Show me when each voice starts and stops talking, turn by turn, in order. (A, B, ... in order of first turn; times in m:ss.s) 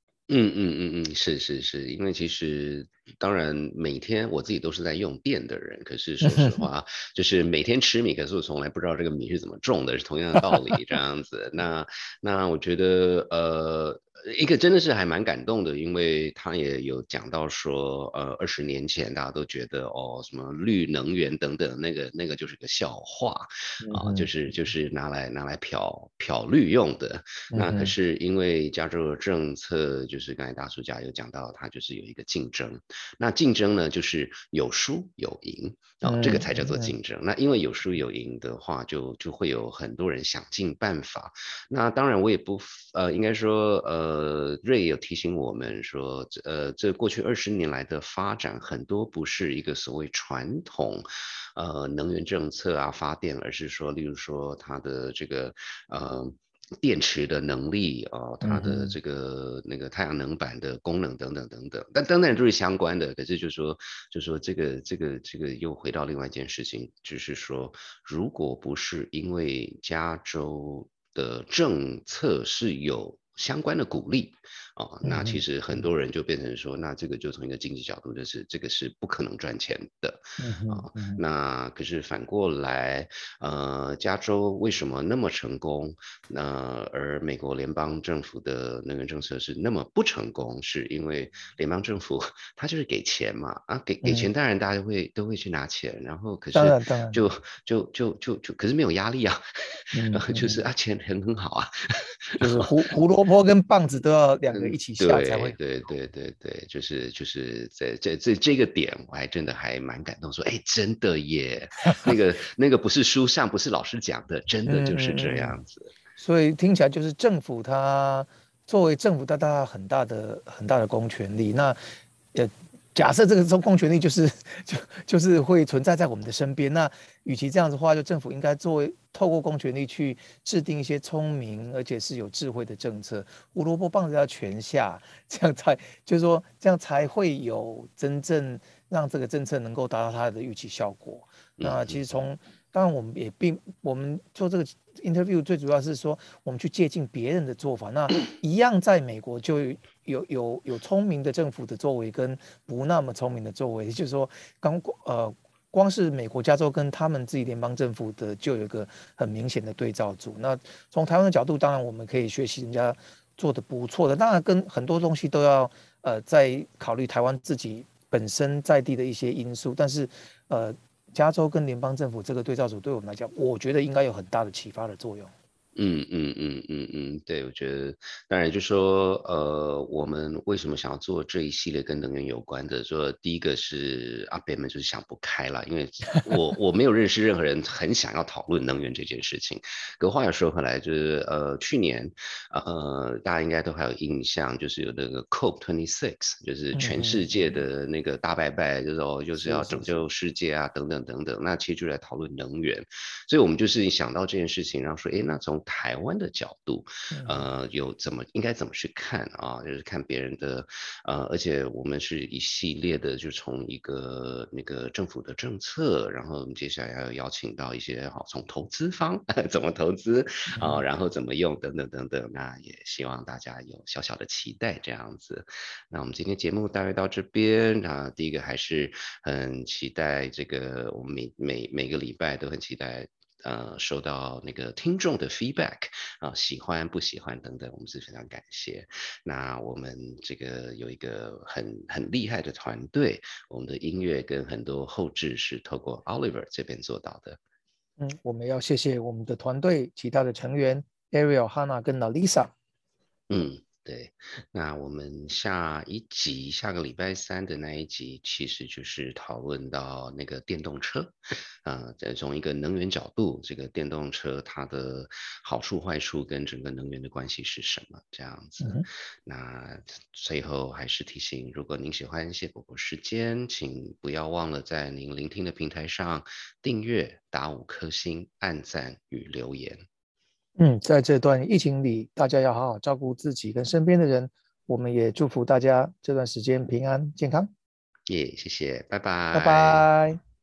0:00.3-0:51.0 A
0:06.2-0:06.7 B
0:23.8-0:24.3 B
0:27.5-0:27.9 B
0:36.0-0:36.9 B
0:51.6-1:42.7 A
0:58.4-0:59.0 B
1:15.0-1:15.9 B
1:20.4-1:21.2 B
1:36.5-1:37.2 B
1:39.9-1:40.6 B
1:42.4-1:45.6 B
1:44.5-1:55.9 A
1:54.7-1:55.6 B
1:56.2-2:01.8 B
2:02.3-2:55.3 B
2:21.6-2:22.0 A
2:55.8-4:07.4 A
3:16.7-3:17.6 B
3:19.4-3:19.9 B
3:27.1-3:27.5 B
3:40.5-3:40.8 B
4:08.0-4:12.5 B
4:13.3-4:21.1 A
4:21.6-4:39.8 A
4:28.6-4:28.9 B
4:40.6-4:47.5 B
4:48.1-4:49.9 A
4:49.3-4:50.2 B